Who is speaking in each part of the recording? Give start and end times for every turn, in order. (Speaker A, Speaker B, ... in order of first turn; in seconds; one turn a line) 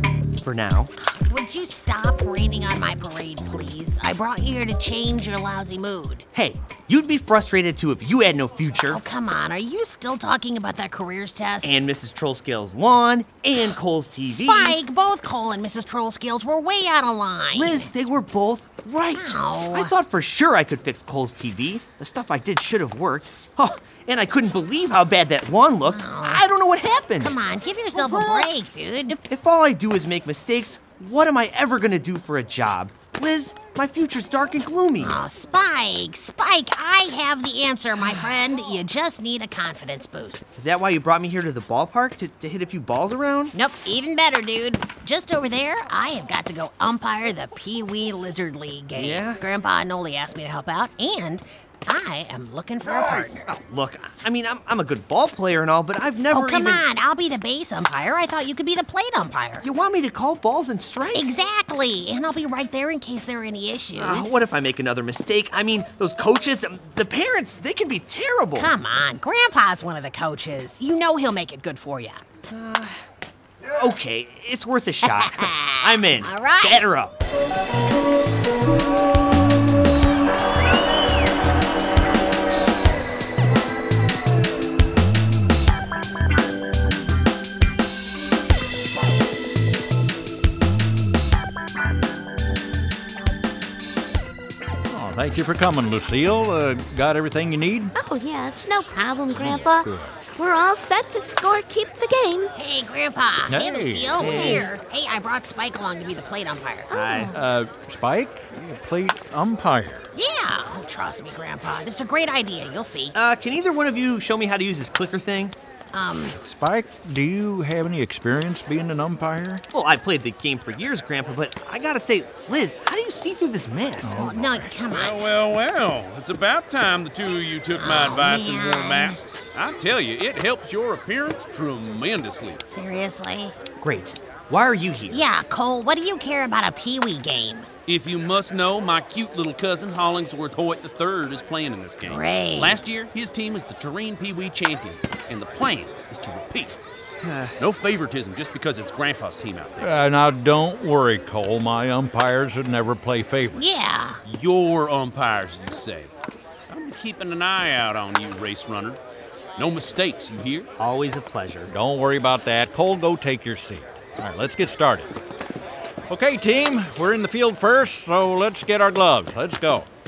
Speaker A: 0.4-0.9
Speaker B: 1.0-6.3
Speaker A: 6.3-9.0
Speaker B: 8.9-11.8
Speaker A: 11.6-14.8
Speaker B: 14.3-17.9
Speaker A: 17.5-27.4
Speaker B: 19.1-19.9
Speaker B: 25.9-26.4
Speaker B: 27.2-29.2
Speaker A: 27.9-28.5
Speaker A: 29.1-35.2
Speaker B: 35.0-40.5
Speaker A: 40.5-43.5
Speaker B: 43.5-53.4
Speaker A: 48.9-49.4
Speaker A: 53.4-56.8
Speaker B: 56.3-59.6
Speaker A: 59.6-61.4
Speaker B: 61.1-64.4
Speaker A: 64.0-68.7
Speaker B: 68.6-72.2
Speaker A: 72.5-73.0
Speaker A: 73.7-77.2
Speaker B: 75.0-76.9
Speaker C: 94.9-97.9
Speaker D: 97.9-102.5
Speaker C: 99.3-100.2
Speaker B: 102.5-106.9
Speaker C: 103.5-104.7
Speaker A: 104.2-104.7
Speaker D: 106.9-107.4
Speaker A: 106.9-107.3
Speaker C: 107.3-110.1
Speaker B: 110.1-113.1
Speaker A: 113.1-115.5
Speaker B: 115.9-116.3
Speaker C: 116.3-119.6
Speaker A: 119.7-124.3
Speaker C: 124.0-124.7
Speaker B: 124.1-125.2
Speaker E: 124.9-132.6
Speaker B: 127.8-129.2
Speaker B: 132.7-133.5
Speaker A: 133.8-135.2
Speaker B: 135.1-137.7
Speaker E: 137.9-146.8
Speaker B: 142.0-143.0
Speaker A: 147.2-147.6
Speaker E: 147.6-149.9
Speaker C: 149.8-153.6
Speaker B: 153.5-154.2
Speaker E: 154.2-156.1
Speaker E: 156.7-159.0
Speaker E: 159.6-160.7
Speaker A: 160.8-161.7
Speaker C: 161.7-165.1
Speaker C: 166.1-169.9